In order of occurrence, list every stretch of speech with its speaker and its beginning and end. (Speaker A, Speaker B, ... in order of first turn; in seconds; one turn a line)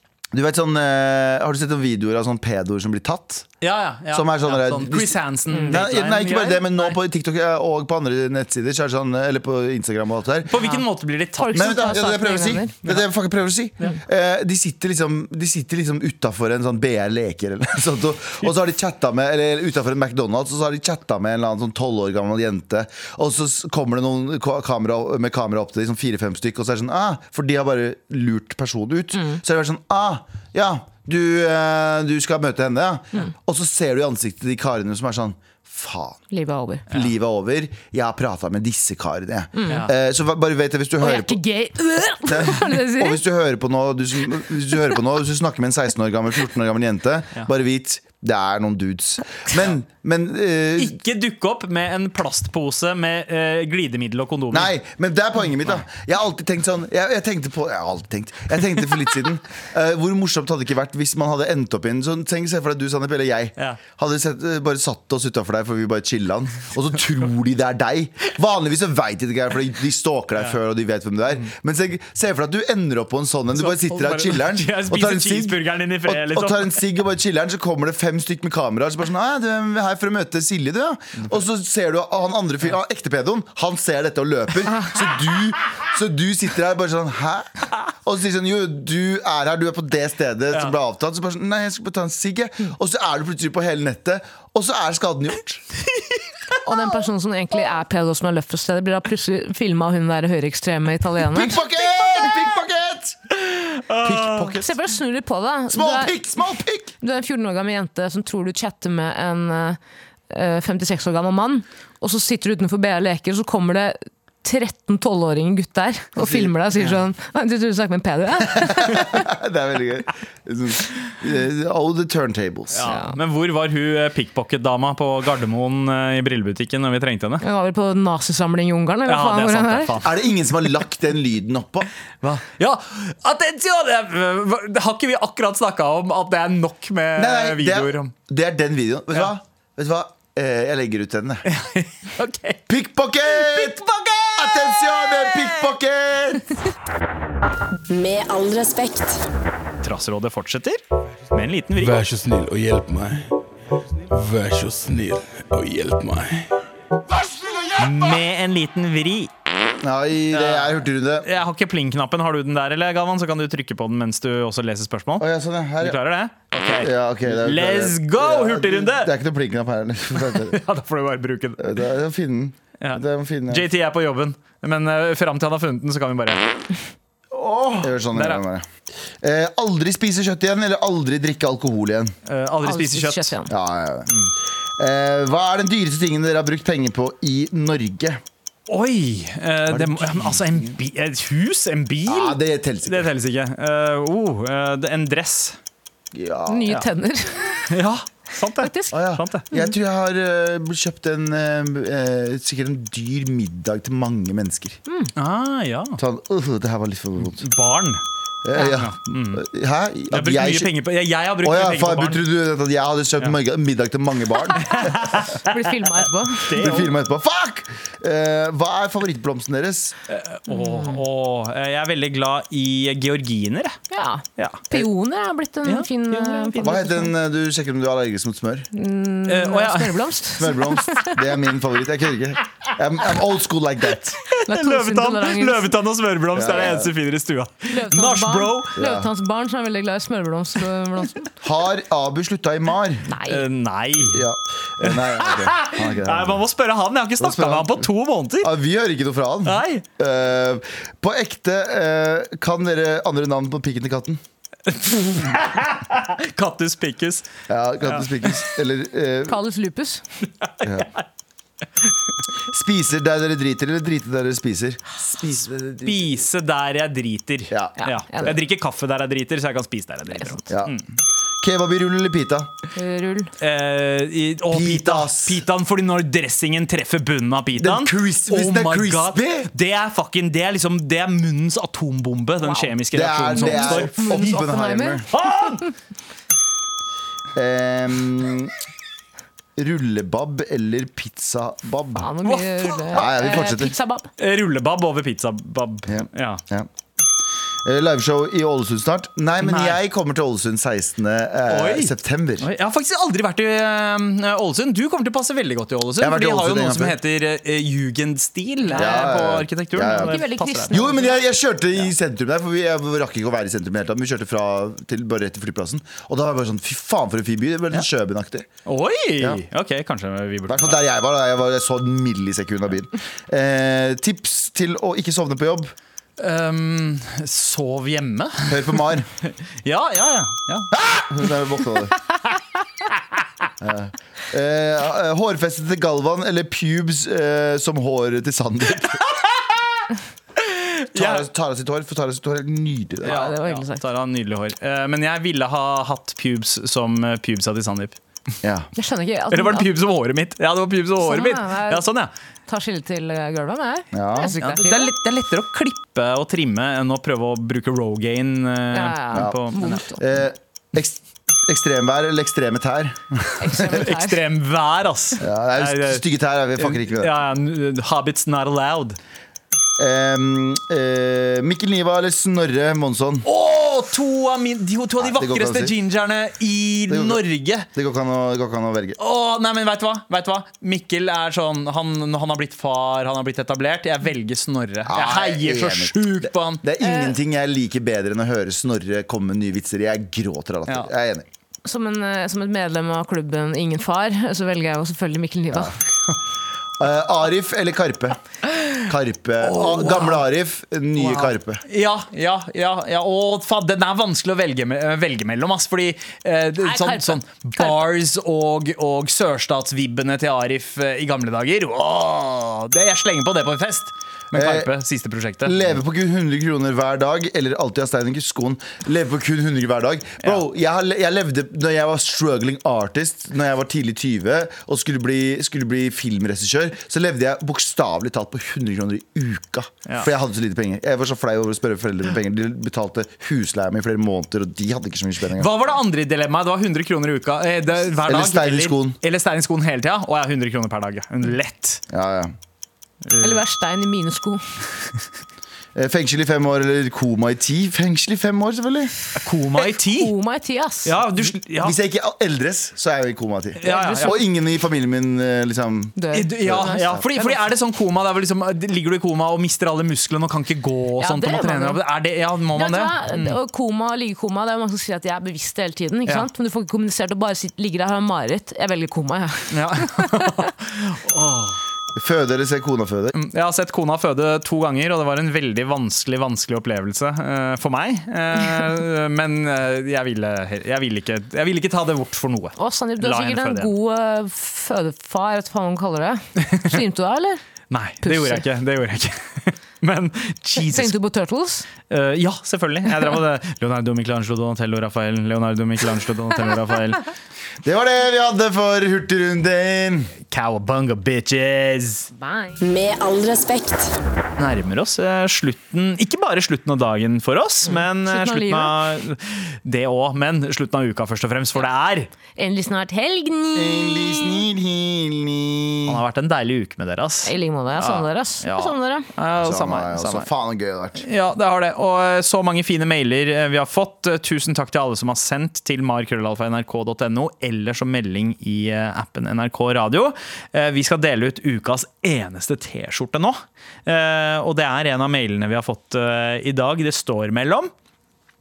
Speaker A: 0.3-3.5
Speaker B: 3.6-7.0
Speaker A: 4.1-10.5
Speaker C: 5.5-5.8
Speaker B: 10.5-11.8
Speaker C: 11.4-12.7
Speaker A: 11.5-36.2
Speaker C: 29.1-29.4
Speaker C: 36.3-36.9
Speaker A: 36.9-41.4
Speaker C: 39.5-39.9
Speaker C: 41.0-43.2
Speaker A: 42.2-51.0
Speaker B: 50.8-54.7
Speaker A: 54.5-95.6
Speaker B: 73.5-76.8
Speaker C: 96.6-101.6
Speaker A: 101.3-103.2
Speaker B: 103.4-104.5
Speaker A: 104.0-104.7
Speaker C: 104.5-106.2
Speaker A: 105.7-106.9
Speaker C: 107.0-109.8
Speaker C: 110.3-119.3
Speaker A: 116.2-116.7
Speaker A: 118.5-122.9
Speaker B: 122.7-127.4
Speaker C: 122.8-123.2
Speaker C: 127.4-129.9
Speaker B: 129.1-130.2
Speaker A: 130.0-131.9
Speaker B: 132.2-138.1
Speaker A: 137.2-141.4
Speaker B: 141.5-142.6
Speaker A: 142.7-143.8
Speaker B: 143.3-145.7
Speaker A: 144.3-146.6
Speaker D: 147.9-149.2
Speaker B: 149.8-150.8
Speaker B: 151.3-152.0
Speaker E: 151.8-153.3
Speaker E: 154.1-156.5
Speaker B: 157.8-159.3
Speaker A: 159.8-161.3
Speaker B: 160.3-165.3
Speaker A: 165.2-166.0
Speaker B: 165.8-169.1
Speaker A: 166.8-170.6
Speaker B: 170.1-171.8
Speaker A: 171.6-173.7
Speaker B: 172.8-176.5
Speaker A: 177.3-178.7
Speaker B: 178.1-178.4
Speaker A: 179.2-182.1
Speaker B: 182.2-183.3
Speaker C: 182.6-183.5
Speaker A: 183.5-184.1
Speaker A: 184.8-188.2
Speaker B: 188.7-195.6
Speaker A: 189.7-190.8
Speaker A: 192.1-193.1
Speaker A: 196.1-196.8
Speaker C: 196.5-197.7
Speaker B: 197.7-199.4
Speaker C: 198.6-198.9
Speaker A: 198.9-204.8
Speaker C: 204.9-205.1
Speaker B: 205.2-206.0
Speaker A: 206.0-207.5
Speaker B: 207.2-208.0
Speaker A: 208.4-210.7
Speaker B: 208.7-209.4
Speaker B: 210.1-212.2
Speaker A: 211.4-215.2
Speaker B: 214.6-215.8
Speaker C: 215.4-216.7
Speaker B: 216.3-216.9
Speaker A: 216.6-219.9
Speaker B: 220.1-223.8
Speaker C: 220.5-221.0
Speaker C: 223.9-227.1
Speaker B: 224.4-224.8
Speaker B: 225.6-226.7
Speaker A: 226.6-228.7
Speaker C: 228.7-231.2
Speaker B: 229.3-230.1
Speaker A: 230.4-234.2
Speaker B: 234.2-238.7
Speaker C: 234.5-235.7
Speaker A: 236.3-236.9
Speaker C: 237.7-241.3
Speaker A: 238.8-239.1
Speaker A: 241.4-243.1
Speaker C: 243.1-243.4
Speaker B: 243.2-244.2
Speaker A: 244.0-246.4
Speaker B: 244.8-248.5
Speaker A: 247.2-247.9
Speaker A: 248.4-254.2
Speaker B: 249.4-249.8
Speaker B: 254.7-257.3
Speaker A: 257.5-259.4
Speaker B: 257.9-258.4
Speaker C: 259.3-260.0
Speaker B: 260.5-261.0
Speaker A: 260.6-260.9
Speaker A: 262.5-266.2
Speaker B: 265.8-270.8
Speaker A: 267.5-268.3
Speaker C: 267.8-268.3
Speaker A: 270.5-270.8
Speaker A: 271.4-272.5
Speaker C: 272.7-273.3
Speaker B: 273.4-284.2
Speaker A: 274.5-275.4
Speaker A: 277.6-279.5
Speaker A: 282.9-285.1
Speaker C: 283.3-285.0
Speaker B: 285.1-285.6
Speaker A: 287.3-288.5
Speaker A: 289.6-292.1
Speaker C: 291.9-294.1
Speaker B: 292.2-292.8
Speaker A: 292.9-293.7
Speaker B: 294.2-296.4
Speaker A: 295.9-296.7
Speaker A: 297.6-302.5
Speaker B: 299.4-299.8
Speaker B: 301.5-310.9
Speaker A: 306.0-307.0
Speaker C: 308.6-309.1
Speaker A: 308.8-318.5
Speaker C: 309.9-311.2
Speaker B: 318.6-320.8
Speaker A: 320.5-325.7
Speaker B: 326.2-328.7
Speaker A: 328.5-329.1
Speaker B: 329.6-330.7
Speaker A: 330.7-332.0
Speaker A: 333.6-339.2
Speaker B: 340.4-341.2
Speaker A: 340.9-343.2
Speaker C: 343.0-343.8
Speaker B: 343.0-348.0
Speaker A: 348.4-348.7
Speaker C: 348.8-349.7
Speaker B: 349.3-352.1
Speaker C: 351.0-351.9
Speaker C: 352.5-354.9
Speaker A: 353.9-354.3
Speaker B: 354.2-359.8
Speaker C: 358.7-360.0
Speaker A: 359.9-363.8
Speaker C: 363.4-364.2
Speaker B: 363.6-366.0
Speaker A: 365.2-367.1
Speaker B: 366.6-369.0
Speaker A: 369.8-373.3
Speaker B: 373.2-377.7
Speaker A: 375.0-375.7
Speaker A: 376.9-377.2
Speaker A: 377.7-379.0
Speaker B: 379.0-386.6
Speaker A: 384.9-391.3
Speaker C: 386.8-387.1
Speaker C: 391.6-395.8
Speaker A: 396.8-398.2
Speaker A: 398.8-401.6
Speaker B: 399.4-400.2
Speaker B: 401.0-415.8
Speaker C: 406.6-407.9
Speaker A: 414.3-414.7
Speaker A: 415.4-435.5
Speaker B: 435.4-441.8
Speaker A: 438.1-439.0
Speaker A: 441.9-442.3
Speaker B: 443.1-443.4
Speaker C: 443.2-444.4
Speaker A: 445.7-448.9
Speaker B: 449.1-450.1
Speaker C: 449.6-450.9
Speaker B: 450.8-451.8
Speaker A: 451.2-457.1
Speaker B: 453.6-454.2
Speaker C: 453.6-454.1
Speaker C: 456.0-457.4
Speaker B: 456.1-463.4
Speaker C: 461.0-461.8
Speaker C: 462.5-470.3
Speaker B: 469.5-471.6
Speaker A: 471.9-473.1
Speaker B: 473.1-483.7
Speaker C: 482.6-487.4
Speaker B: 486.4-486.8
Speaker B: 487.7-490.9
Speaker C: 488.0-488.4
Speaker C: 490.6-491.7
Speaker B: 491.9-497.0
Speaker A: 497.6-500.1
Speaker B: 500.3-502.1
Speaker C: 502.1-502.6
Speaker D: 502.6-503.9
Speaker B: 504.4-512.1
Speaker C: 507.6-508.8
Speaker C: 512.4-514.4
Speaker A: 513.5-516.0
Speaker B: 515.9-520.3
Speaker C: 517.2-519.1
Speaker A: 519.4-521.0
Speaker B: 521.0-537.7